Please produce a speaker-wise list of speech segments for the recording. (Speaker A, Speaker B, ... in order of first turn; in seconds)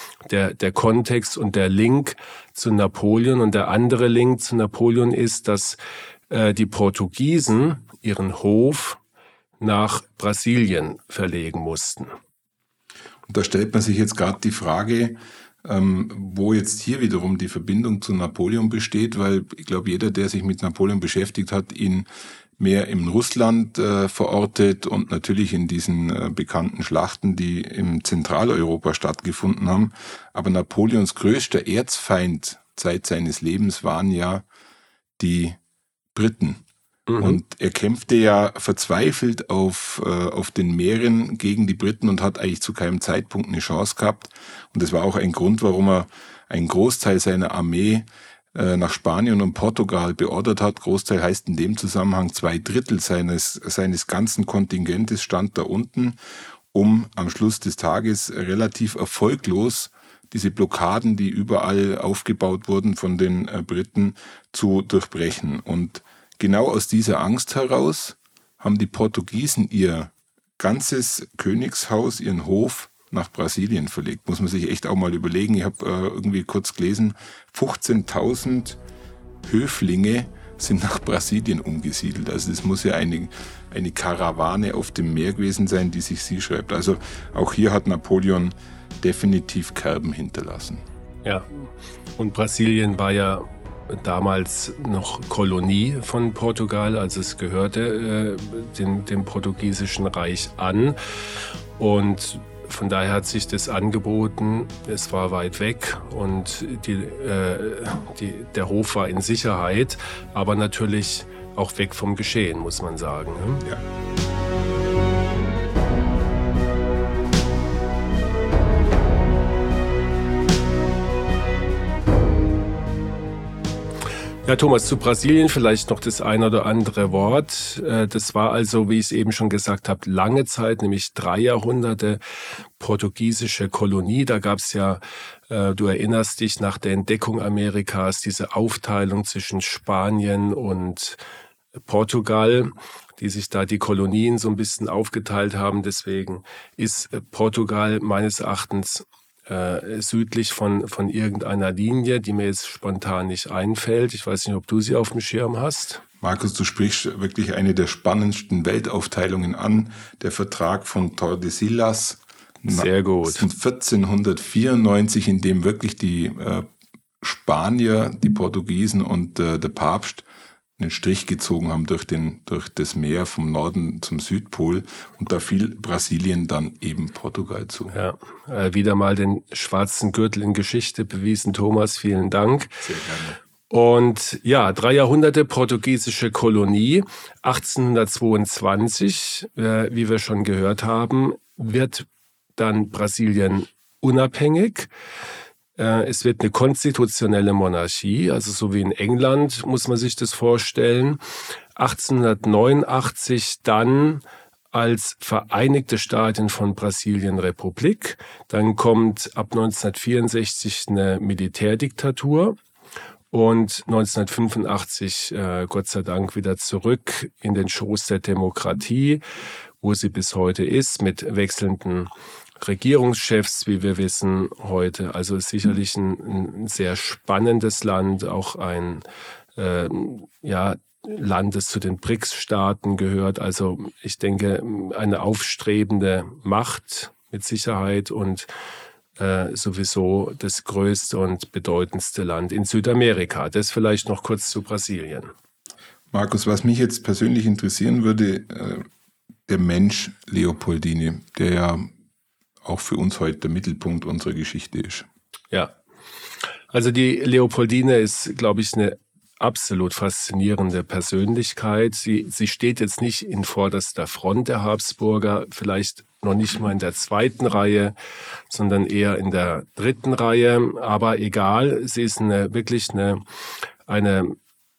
Speaker A: 0.3-5.8, 6.3-9.0, 9.6-12.1, 37.1-37.4, 91.2-101.0, 101.8-113.6, 124.5-132.2, 132.8-141.2, 141.8-156.0, 162.7-163.4, 177.9-182.8, 183.7-194.9, 195.8-201.2, 201.8-212.6, 213.3-219.2, 219.8-222.1, 222.6-229.0, 229.6-238.5, 239.2-245.3, 256.7-267.9, 268.5-273.2, 273.9-274.4
Speaker B: 13.3-22.1, 22.6-34.5, 35.2-35.6, 36.1-36.6, 37.2-56.2, 56.7-78.8, 79.4-90.8, 156.2-166.7, 167.2-170.2, 170.8-177.9, 182.8-183.4, 246.1-248.9, 249.5-251.9, 252.6-255.1